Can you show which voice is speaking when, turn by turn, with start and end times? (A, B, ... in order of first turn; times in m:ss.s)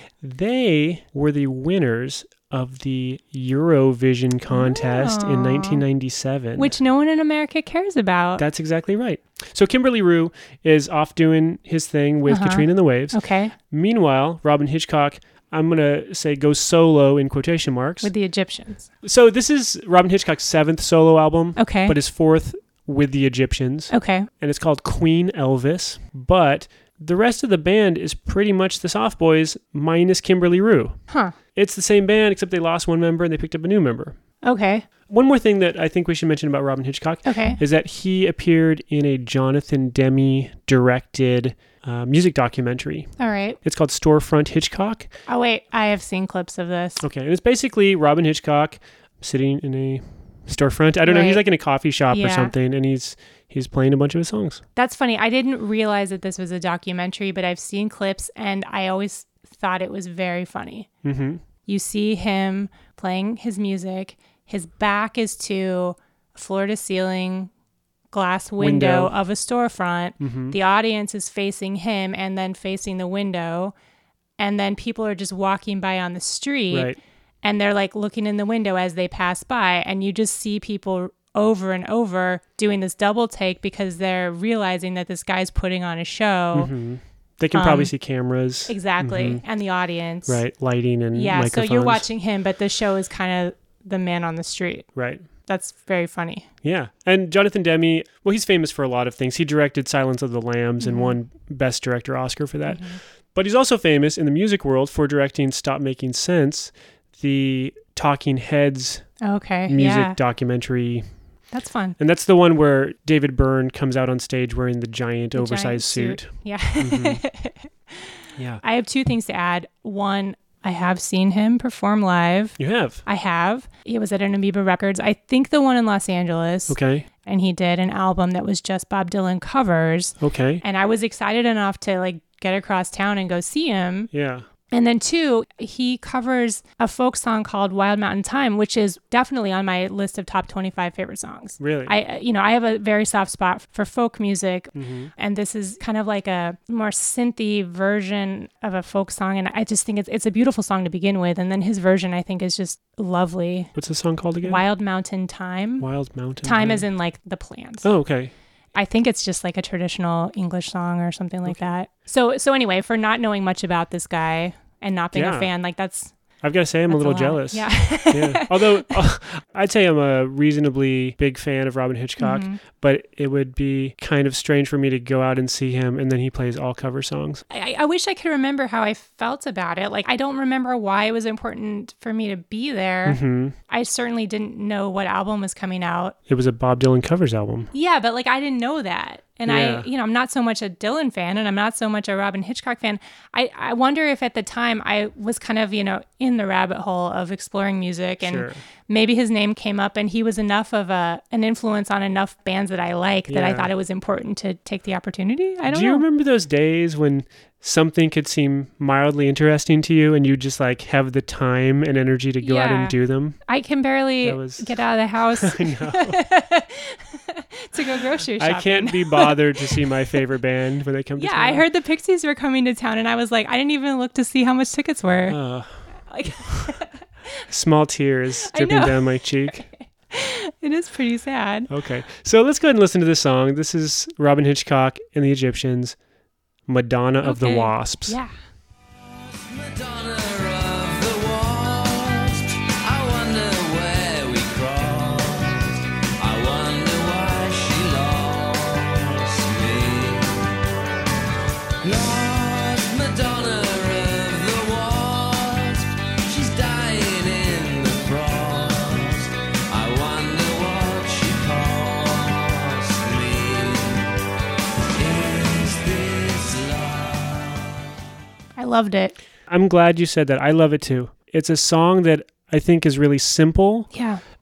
0:00.2-0:06.8 A
0:04.5-0:05.8 B
0:06.6-0:08.4 B
0:08.4-0:18.1 A
0:12.3-0:13.5 B
0:18.0-0:18.9 B
0:19.0-0:31.0 A
0:21.6-0:22.0 B
0:23.9-0:24.3 B
0:31.1-0:31.4 B
0:31.6-0:34.2 A
0:34.4-0:34.8 B
0:35.1-0:43.1 A
0:37.2-0:37.6 B
0:43.2-0:43.6 B
0:43.6-0:45.1 A
0:45.3-0:47.0 B
0:47.0-0:54.6 A
0:51.0-0:51.4 B
0:52.1-0:52.5 B
0:54.8-1:00.9 B
1:01.0-1:01.4 A
1:01.7-1:07.5 B
1:08.1-1:13.7 B
1:08.6-1:09.2 A
1:10.2-1:10.6 A
1:14.4-1:26.7 B
1:16.7-1:17.0 A
1:26.5-1:29.4 A
1:27.5-1:27.9 B
1:28.7-1:30.4 B
1:30.3-1:32.1 A
1:31.1-1:34.9 B
1:35.0-1:35.2 A
1:35.5-1:36.5 B
1:36.6-1:49.1 A
1:40.8-1:41.2 B
1:42.7-1:43.0 B
1:49.2-1:50.2 B
1:49.7-1:51.1 A
1:51.5-1:52.0 B
1:52.0-1:57.2 A
1:55.4-2:14.1 B
1:58.4-1:58.6 A
2:02.6-2:03.0 A
2:06.7-2:07.1 A
2:10.2-2:10.6 A
2:14.1-2:14.4 A
2:14.7-2:33.7 B
2:21.6-2:22.0 A
2:24.8-2:25.1 A
2:33.8-2:34.6 A
2:34.4-2:35.9 B
2:35.8-2:36.9 A
2:36.4-2:37.9 B
2:37.8-2:38.3 A
2:38.7-2:46.1 B
2:45.1-2:45.5 A
2:46.4-2:57.4 A
2:46.9-2:49.0 B
2:52.2-2:52.6 B
2:57.5-3:06.2 B
3:03.0-3:03.6 A
3:06.3-3:07.7 A
3:07.7-3:26.0 B
3:09.5-3:09.9 A
3:18.2-3:18.6 A
3:23.3-3:23.7 A
3:25.7-3:33.4 A
3:32.4-3:33.0 B
3:33.5-3:40.0 B
3:34.2-3:34.7 A
3:35.4-3:36.2 A
3:38.4-3:41.6 A
3:41.2-3:45.4 B
3:45.3-3:46.7 A
3:46.1-3:47.4 B
3:47.5-3:49.6 A
3:48.4-3:51.7 B
3:51.7-3:56.0 A
3:56.7-3:58.2 A
3:57.2-3:58.3 B
3:59.3-4:10.6 C
4:11.8-4:24.1 C
4:25.0-4:27.7 C
4:28.6-4:29.2 B
4:29.5-4:33.9 A
4:33.9-4:34.2 B